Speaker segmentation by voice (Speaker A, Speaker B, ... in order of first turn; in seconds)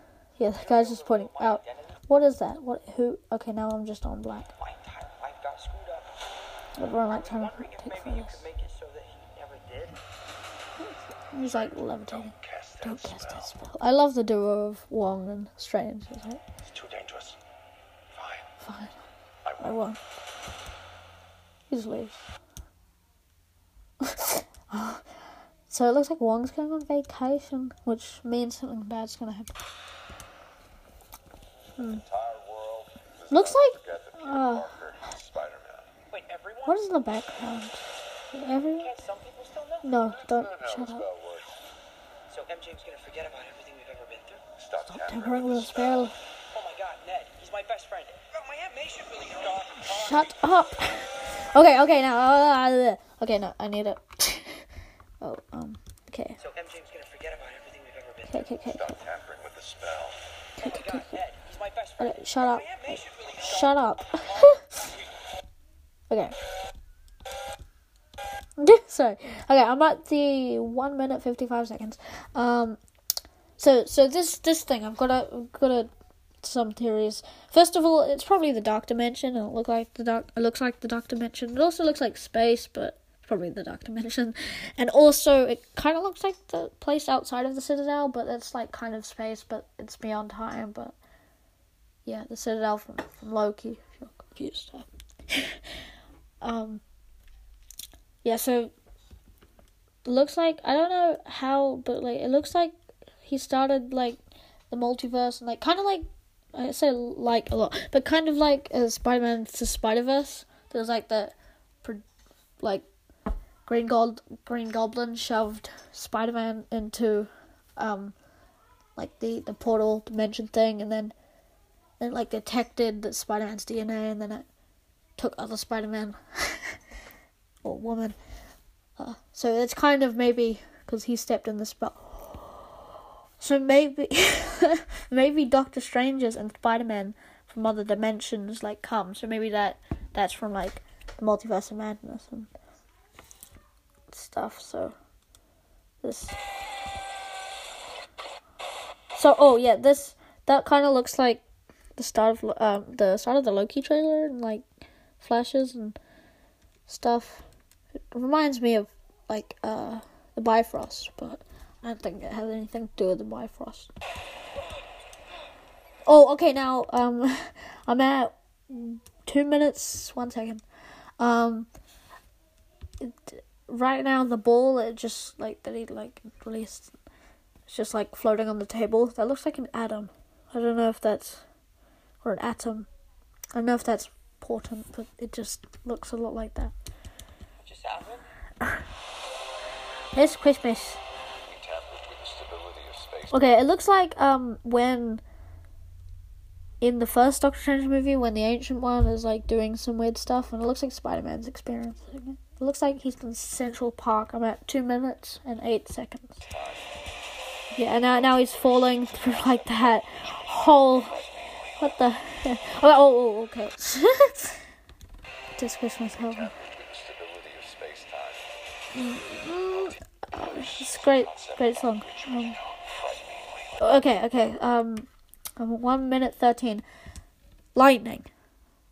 Speaker A: 0.4-4.5, 6.8-8.4, 10.8-16.4, 18.6-19.0, 19.6-20.0, 21.7-22.2, 24.1-25.1, 25.7-29.5, 31.8-32.0, 33.3-34.7, 36.6-37.8, 38.3-39.0, 39.8-41.1, 44.9-46.1, 49.8-54.6, 55.2-56.4, 58.3-59.0, 60.6-61.2, 62.0-64.7, 66.1-66.3, 68.6-72.8, 73.6-75.9, 76.4-91.0, 92.1-95.6, 96.4-96.8, 98.2-98.7, 100.0-102.7, 103.2-104.2, 104.7-112.0, 112.6-112.8, 113.7-118.2, 119.0-121.1, 122.0-124.5, 125.2-126.8, 127.6-128.2, 129.0-132.6, 133.4-142.5, 144.1-145.0, 146.0-146.4, 149.2-151.4, 152.0-154.7, 155.2-156.0, 156.9-157.4, 158.1-163.9, 166.1-170.6, 171.2-171.7, 173.0-176.9, 177.7-181.5, 182.2-182.9, 183.6-186.7, 190.1-191.0, 193.3-195.2, 196.8-206.4, 207.7-211.2, 211.8-214.6, 215.6-216.5, 218.9-222.6, 223.8-226.8, 227.8-228.3
Speaker B: 0.6-2.0, 4.6-6.2, 7.1-10.0, 36.1-36.9, 38.8-39.9, 42.3-44.4, 46.5-50.4, 56.4-58.5, 60.6-64.6, 187.6-188.3
Speaker C: 11.4-13.6, 16.7-17.4, 18.1-18.5, 19.4-19.9, 31.8-35.9, 40.0-41.6, 44.6-46.1, 58.6-60.2, 191.4-193.6, 206.4-206.9, 207.9-212.0, 216.2-218.5, 219.7-223.9